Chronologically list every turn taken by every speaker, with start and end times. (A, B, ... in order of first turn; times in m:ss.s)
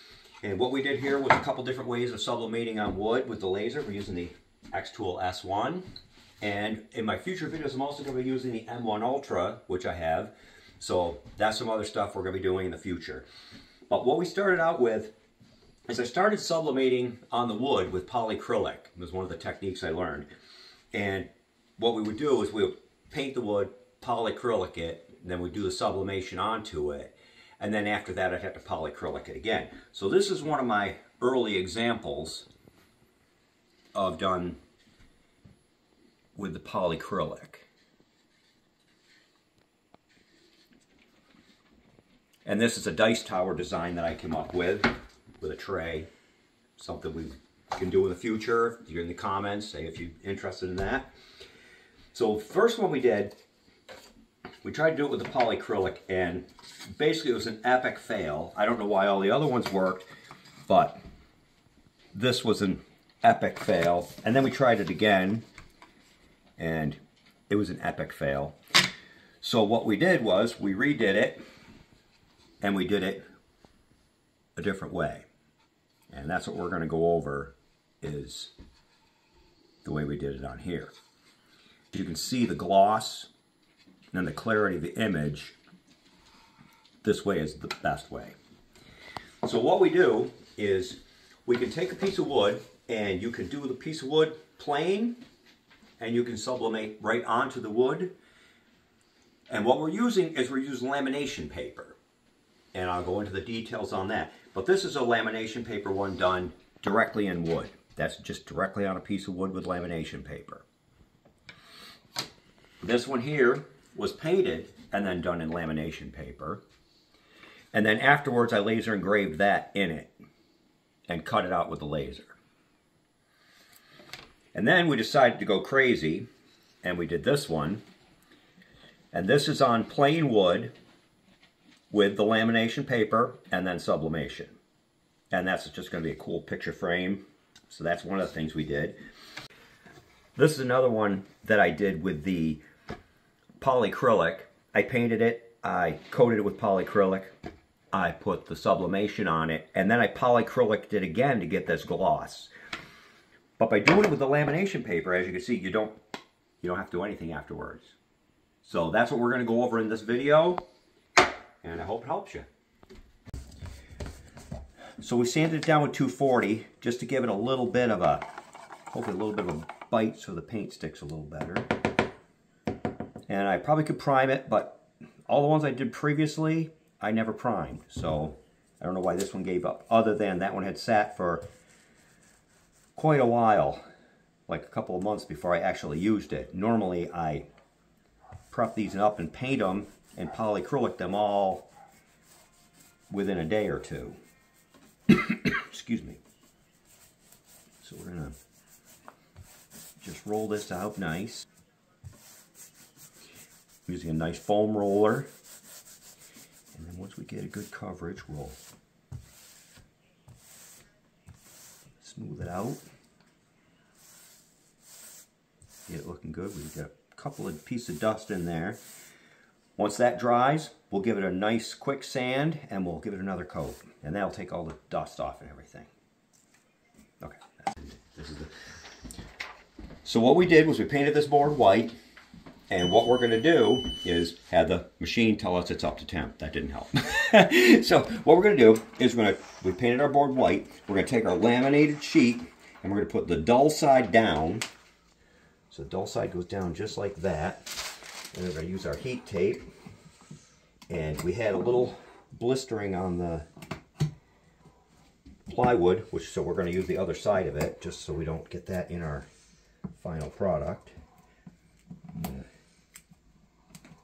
0:00.4-0:05.8 A
0:06.4-0:13.2 A
0:13.9-0:15.1 A
0:15.9-0:20.3 A
0:20.9-0:32.5 A
0:33.9-0:34.6 A
0:36.3-0:37.7 A
0:42.4-0:46.1 A
0:46.8-0:51.1 A
0:52.1-0:53.4 A
0:54.6-1:00.1 A
1:00.6-1:01.0 A
1:02.1-1:05.4 A
1:06.6-1:07.0 A
1:07.5-1:08.6 A
1:09.4-1:11.4 A
1:12.6-1:13.2 A
1:14.6-1:15.2 A
1:16.1-1:18.5 A
1:19.8-1:20.9 A
1:21.9-1:23.3 A
1:24.1-1:25.6 A
1:27.0-1:28.4 A
1:29.4-1:35.2 A
1:36.0-1:38.1 A
1:39.5-1:42.0 A
1:42.7-1:50.6 A
1:52.8-1:56.6 A
1:57.7-2:00.2 A
2:01.1-2:02.4 A
2:04.5-2:06.3 A
2:06.8-2:07.8 A
2:09.1-2:10.7 A
2:11.9-2:14.6 A
2:15.3-2:19.0 A
2:20.4-2:22.6 A
2:23.6-2:27.3 A
2:27.9-2:32.5 A
2:33.6-2:36.0 A
2:36.6-2:37.9 A
2:38.6-2:40.6 A
2:41.6-2:42.5 A
2:45.0-2:48.3 A
2:48.9-2:51.7 A
2:53.3-3:01.4 A
3:03.0-3:03.8 A
3:04.5-3:07.4 A
3:08.5-3:11.7 A
3:13.1-3:14.2 A
3:15.1-3:16.2 A
3:17.8-3:18.4 A
3:20.0-3:21.5 A
3:23.8-3:25.3 A
3:26.7-3:28.6 A
3:32.0-3:32.8 A
3:35.9-3:38.8 A
3:39.8-3:45.9 A
3:47.2-3:48.5 A
3:50.0-3:51.9 A
3:52.7-4:04.6 A
4:05.7-4:07.7 A
4:08.3-4:09.6 A
4:10.9-4:13.4 A
4:15.5-4:19.3 A
4:19.9-4:20.9 A
4:22.2-4:22.4 A